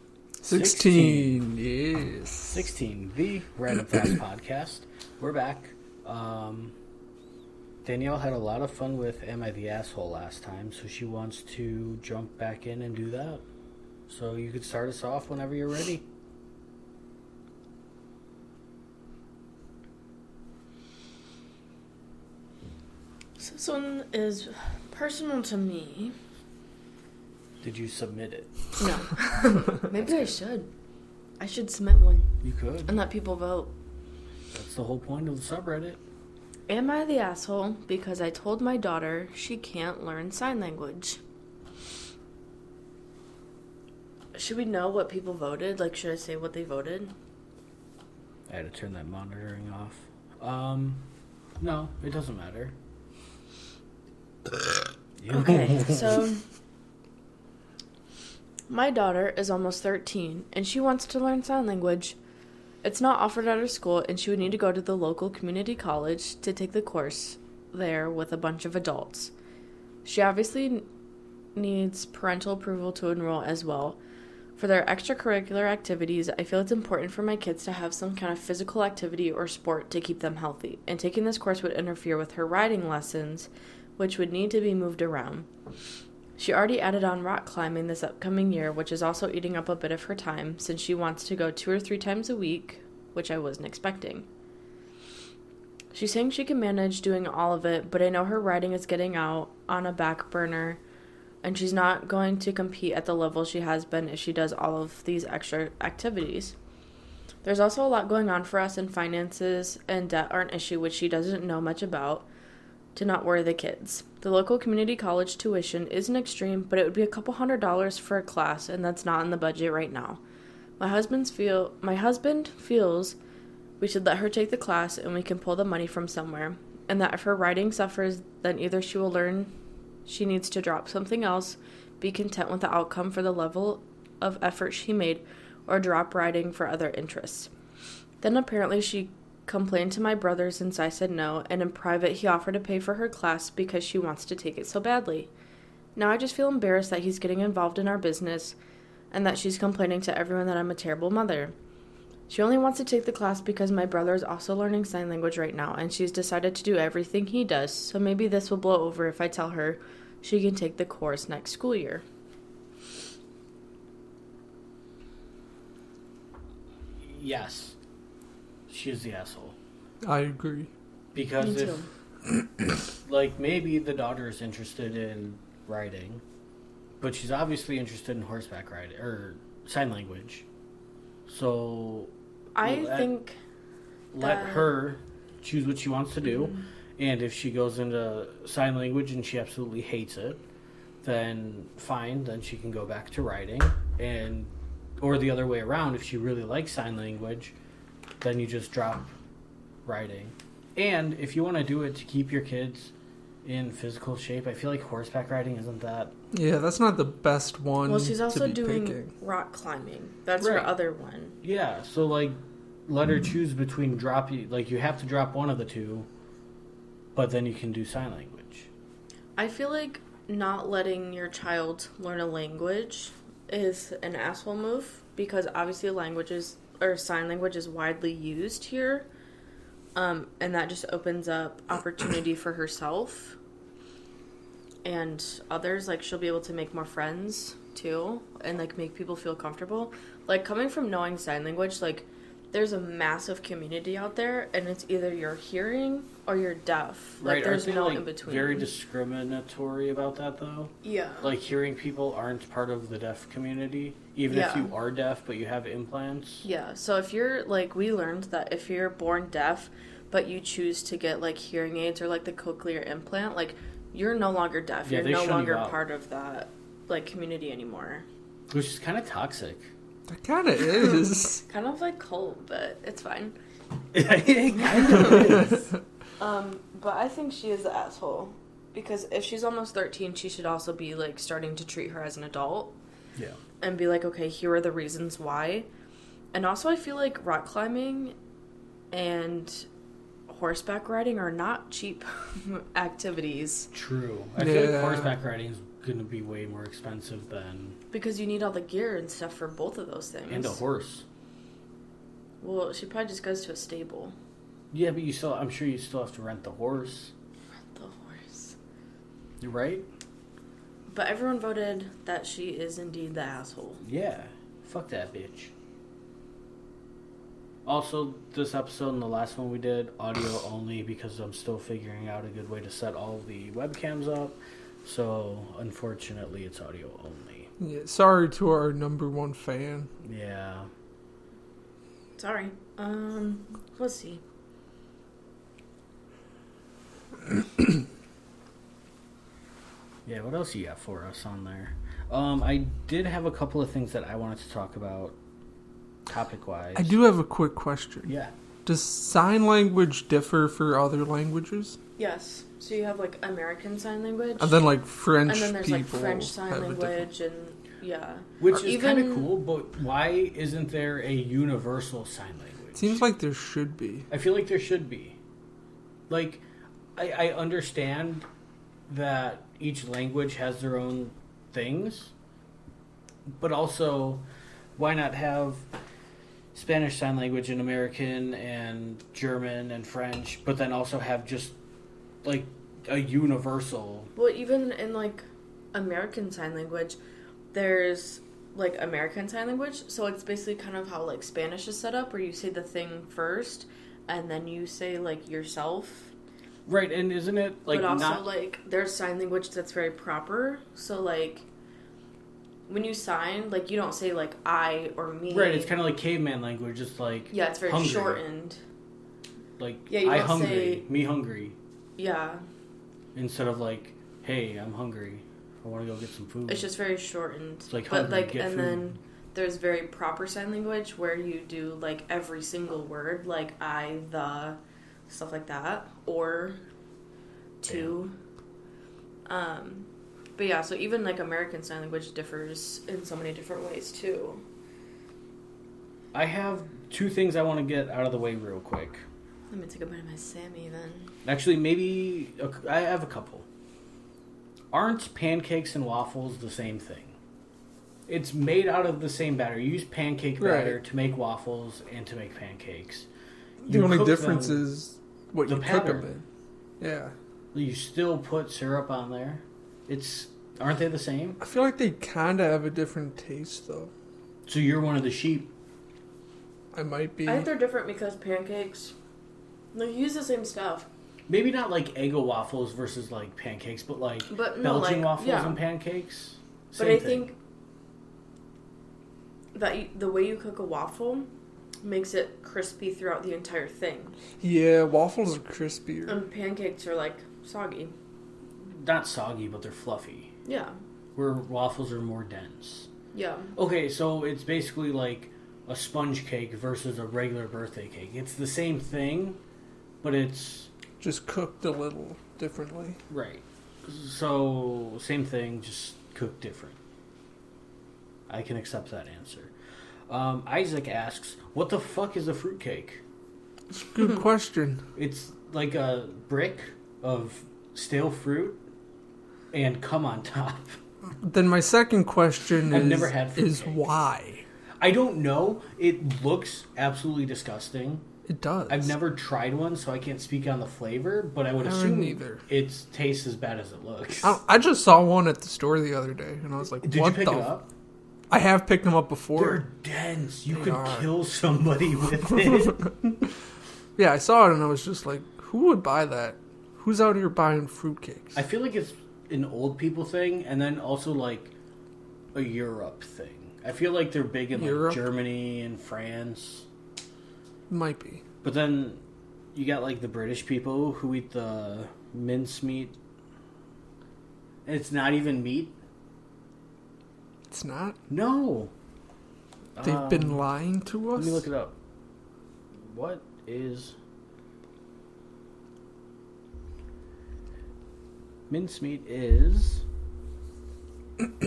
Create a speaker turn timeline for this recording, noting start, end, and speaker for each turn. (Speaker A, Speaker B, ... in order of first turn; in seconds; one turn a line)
Speaker A: 0.4-2.6
Speaker B: 0.5-1.4
Speaker B: 2.5-6.8
Speaker B: 7.8-13.4
Speaker B: 14.1-16.1
Speaker C: 23.4-26.1
Speaker B: 27.6-28.8
Speaker C: 28.8-30.7
Speaker B: 30.0-30.2
Speaker C: 31.4-32.3
Speaker B: 32.4-33.0
Speaker C: 32.9-33.7
Speaker B: 34.5-36.0
Speaker C: 36.7-41.2
Speaker C: 44.3-47.1
Speaker B: 48.5-51.1
Speaker B: 51.6-52.8
Speaker B: 55.2-56.3
Speaker C: 55.3-56.5
Speaker C: 58.7-62.2
Speaker C: 62.8-69.3
Speaker C: 70.0-70.9
Speaker C: 71.5-74.0
Speaker C: 74.5-85.5
Speaker C: 86.4-94.3
Speaker C: 95.9-100.8
Speaker C: 101.4-106.5
Speaker C: 107.4-112.3
Speaker C: 112.9-120.2
Speaker C: 120.8-123.2
Speaker C: 123.8-129.5
Speaker C: 130.1-137.5
Speaker C: 138.2-145.3
Speaker C: 145.9-148.6
Speaker C: 149.1-151.5
Speaker C: 152.3-162.0
Speaker B: 167.0-167.8
Speaker B: 168.7-169.6
Speaker A: 170.0-170.7
Speaker B: 171.1-171.8
Speaker C: 171.4-171.9
Speaker B: 173.0-176.2
Speaker B: 177.0-180.5
Speaker B: 181.2-183.1
Speaker C: 182.5-183.4
Speaker B: 184.1-190.4
Speaker C: 184.2-184.7
Speaker B: 191.0-197.6
Speaker B: 198.2-199.1
Speaker B: 199.8-206.2
Speaker A: 206.3-209.1
Speaker C: 207.8-211.4
Speaker B: 210.4-210.7
Speaker B: 211.4-216.1
Speaker B: 217.1-218.7
Speaker C: 219.4-229.1
Speaker C: 229.9-233.4
Speaker C: 234.8-248.7
Speaker B: 247.2-256.4
Speaker C: 250.8-251.3
Speaker C: 254.3-254.7
Speaker C: 256.4-268.1
Speaker B: 264.9-265.8
Speaker B: 268.5-269.7
Speaker A: 270.1-271.4
Speaker C: 271.4-273.4
Speaker B: 273.9-275.7
Speaker C: 274.6-275.5
Speaker A: 275.1-275.6
Speaker C: 276.2-282.8
Speaker C: 283.6-285.7
Speaker C: 286.3-288.1
Speaker C: 288.9-289.7
Speaker C: 290.3-293.7
Speaker B: 293.7-297.8
Speaker A: 294.4-295.1
Speaker C: 297.9-300.6
Speaker B: 300.3-301.0
Speaker C: 302.4-304.1
Speaker B: 304.7-307.1
Speaker C: 307.7-308.6
Speaker B: 309.4-309.9
Speaker C: 310.9-313.8
Speaker B: 313.8-315.5
Speaker B: 317.6-327.5
Speaker A: 327.6-329.9
Speaker B: 330.0-330.7
Speaker C: 332.2-334.2
Speaker B: 340.1-345.2
Speaker B: 346.1-347.0
Speaker A: 346.8-348.1
Speaker B: 348.1-348.3
Speaker A: 348.6-351.8
Speaker C: 352.0-354.6
Speaker A: 354.4-357.1
Speaker C: 355.2-359.3
Speaker B: 358.4-363.0
Speaker A: 362.7-364.1
Speaker B: 364.1-365.2
Speaker B: 366.1-368.2
Speaker B: 368.9-372.1
Speaker B: 373.3-374.2
Speaker B: 374.8-375.7
Speaker B: 376.5-381.6
Speaker B: 382.2-384.1
Speaker C: 384.1-387.0
Speaker C: 387.5-396.1
Speaker B: 396.6-398.3
Speaker C: 397.7-401.4
Speaker C: 402.7-405.7
Speaker B: 405.3-408.2
Speaker C: 407.3-408.6
Speaker B: 409.6-411.6
Speaker C: 409.9-410.8
Speaker C: 412.0-412.4
Speaker B: 413.1-416.7
Speaker C: 416.5-426.6
Speaker B: 417.7-418.9
Speaker C: 427.6-428.1
Speaker B: 427.6-428.0
Speaker C: 429.3-434.4
Speaker B: 436.1-439.0
Speaker C: 439.5-441.1
Speaker B: 441.2-443.5
Speaker B: 444.7-447.2
Speaker B: 448.1-453.1
Speaker A: 450.4-450.8
Speaker B: 453.6-454.6
Speaker A: 453.7-456.2
Speaker B: 455.4-456.1
Speaker A: 456.8-457.1
Speaker B: 457.5-461.4
Speaker A: 461.4-463.9
Speaker B: 464.5-465.5
Speaker A: 466.7-467.5
Speaker C: 467.2-468.9
Speaker C: 469.7-470.9
Speaker B: 471.3-477.3
Speaker C: 474.3-475.6
Speaker C: 476.8-477.4
Speaker C: 479.5-481.3
Speaker C: 481.8-484.2
Speaker A: 484.4-486.2
Speaker C: 486.1-487.9
Speaker B: 488.6-490.3
Speaker C: 490.4-490.8
Speaker B: 491.1-492.9
Speaker C: 493.1-493.5
Speaker B: 493.5-499.4
Speaker B: 500.0-500.7
Speaker A: 501.0-503.0
Speaker B: 503.1-506.8
Speaker B: 508.3-509.5
Speaker B: 510.1-513.0
Speaker A: 513.7-514.9
Speaker B: 514.9-518.6
Speaker B: 519.5-520.8
Speaker A: 521.2-524.5
Speaker B: 522.7-523.8
Speaker B: 524.8-528.1
Speaker A: 528.3-528.9
Speaker B: 528.7-534.4
Speaker A: 531.6-532.4
Speaker A: 534.2-537.5
Speaker B: 536.8-537.7
Speaker A: 538.3-539.6
Speaker B: 539.3-543.3
Speaker A: 540.5-541.1
Speaker A: 542.3-542.9
Speaker A: 544.0-548.4
Speaker B: 548.3-551.5
Speaker B: 552.3-556.7
Speaker A: 554.5-555.0
Speaker A: 557.7-558.2
Speaker B: 558.4-559.0
Speaker B: 559.5-563.0
Speaker B: 564.6-565.8
Speaker A: 567.5-568.0
Speaker B: 568.1-568.7
Speaker B: 569.8-570.4
Speaker A: 569.8-571.5
Speaker B: 571.1-571.8
Speaker B: 572.7-574.0
Speaker B: 578.5-579.9